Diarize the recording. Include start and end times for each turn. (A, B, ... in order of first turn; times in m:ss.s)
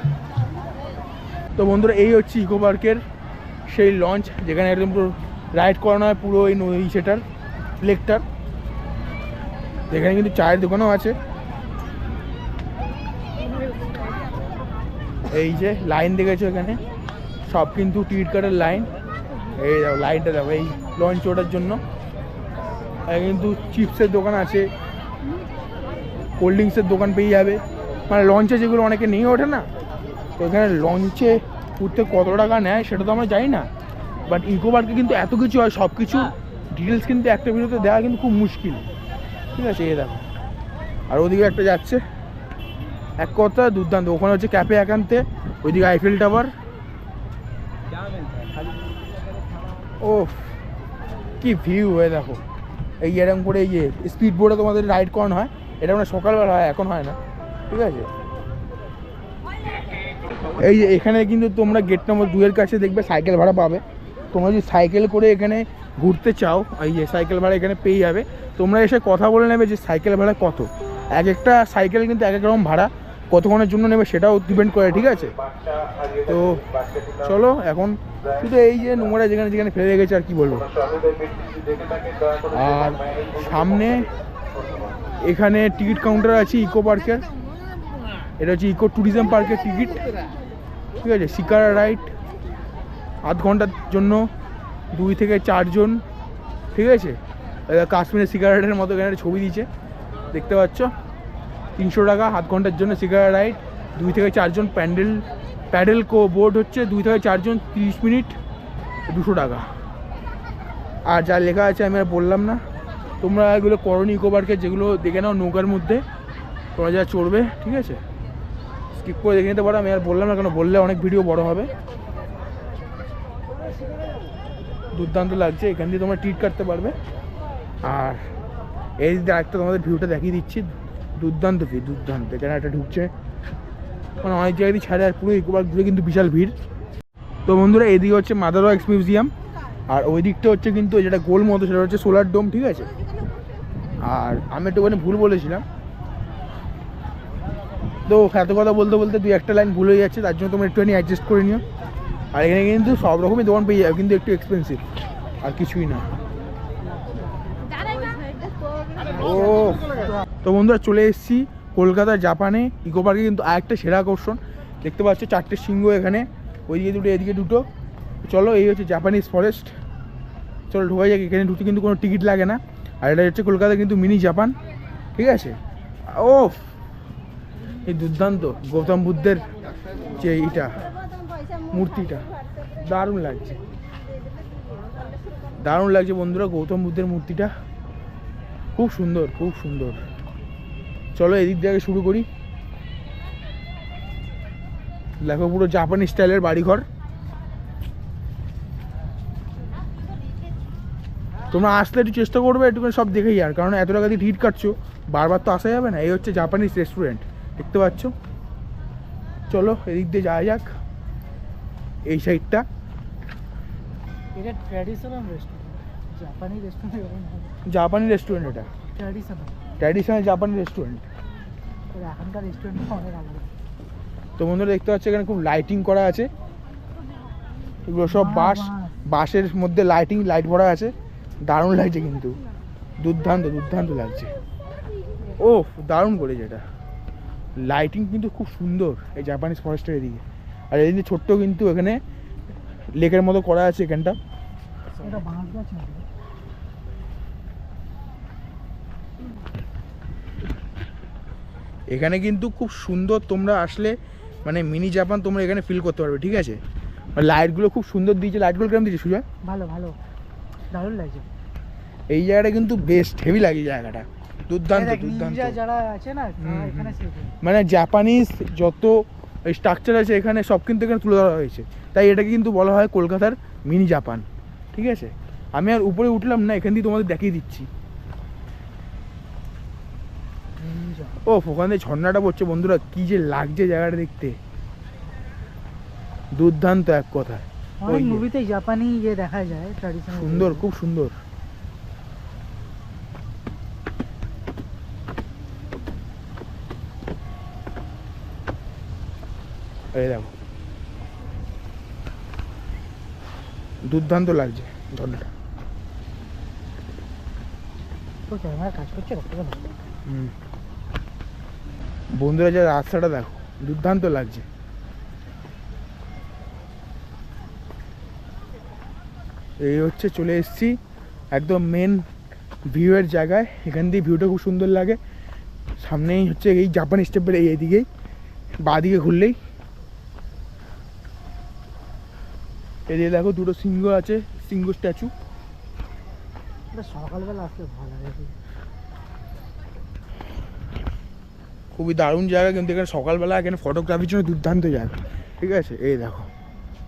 0:01.6-0:03.0 A
0:03.6-0:07.2 A
0:07.8-0:08.2 A
0:09.9-0:11.2 A
0:15.3-0:16.8 A
0:17.5-0:18.9 A
0:19.5-0:21.8 A
0:23.0-0:24.7 A
0:26.4-0:29.7 A
0:30.4-0:33.7 A
0:34.3-0:38.9 A
0:39.5-0:40.2 A
0:41.1-0:42.0 A
0:43.2-0:46.5 A
0:50.0-0:50.5 A
0:51.4-0:52.4 A
0:53.0-0:57.2 A
0:57.7-0:58.1 A
1:00.6-1:15.3 A
1:16.2-1:16.6 A
1:17.2-1:20.7 A
1:22.5-1:24.1 A
1:25.2-1:27.3 A
1:28.4-1:30.0 A
1:31.0-1:32.1 A
1:33.2-1:34.3 A
1:34.9-1:36.0 A
1:36.7-1:39.7 A
1:40.3-1:40.9 A
1:41.8-1:48.4 A
1:49.1-1:49.6 A
1:51.0-1:52.6 A
1:53.2-1:56.0 A
1:56.7-1:58.0 A
1:58.9-2:01.7 A
2:04.9-2:07.0 A
2:07.8-2:08.3 A
2:09.0-2:13.1 A
2:14.2-2:16.5 A
2:17.4-2:19.3 A
2:19.9-2:22.9 A
2:24.0-2:25.6 A
2:28.0-2:31.6 A
2:32.3-2:34.8 A
2:35.4-2:36.1 A
2:39.1-2:47.7 A
2:48.2-2:49.7 A
2:50.7-2:54.6 A
2:55.2-2:56.7 A
2:57.8-2:59.5 A
3:00.2-3:00.8 A
3:01.7-3:02.2 A
3:02.8-3:03.6 A
3:05.6-3:07.5 A
3:08.8-3:10.0 A
3:11.1-3:12.3 A
3:15.2-3:16.8 A
3:21.5-3:28.1 A
3:29.5-3:30.7 A
3:32.0-3:32.6 A
3:34.3-3:37.5 B
3:37.6-3:38.7 A
3:38.9-3:39.6 B
3:39.8-3:41.0 A
3:41.9-3:43.5 B
3:44.4-3:46.3 A
3:47.8-3:52.4 A
3:48.1-3:49.0 B
3:53.0-3:54.3 A
3:55.4-3:56.6 A
3:57.6-4:02.0 A
4:02.9-4:04.2 A
4:05.0-4:06.0 B
4:11.9-4:16.6 A
4:17.2-4:19.2 A
4:19.4-4:20.0 B
4:20.7-4:21.3 B
4:22.1-4:25.6 A
4:24.7-4:27.3 B
4:26.4-4:37.7 A
4:40.6-4:41.2 B
4:41.2-4:44.4 A
4:46.3-4:48.2 A
4:47.8-4:50.6 B
4:50.1-4:51.2 A
4:59.9-5:00.3 A
5:03.8-5:05.3 A
5:08.3-5:09.7 B
5:10.0-5:10.3 A
5:12.1-5:14.4 A
5:19.6-5:20.8 A
5:21.3-5:22.0 A
5:22.7-5:25.0 A
5:25.8-5:27.9 A
5:28.6-5:29.4 A
5:32.9-5:35.1 A
5:36.7-5:38.4 B
5:41.7-5:46.3 A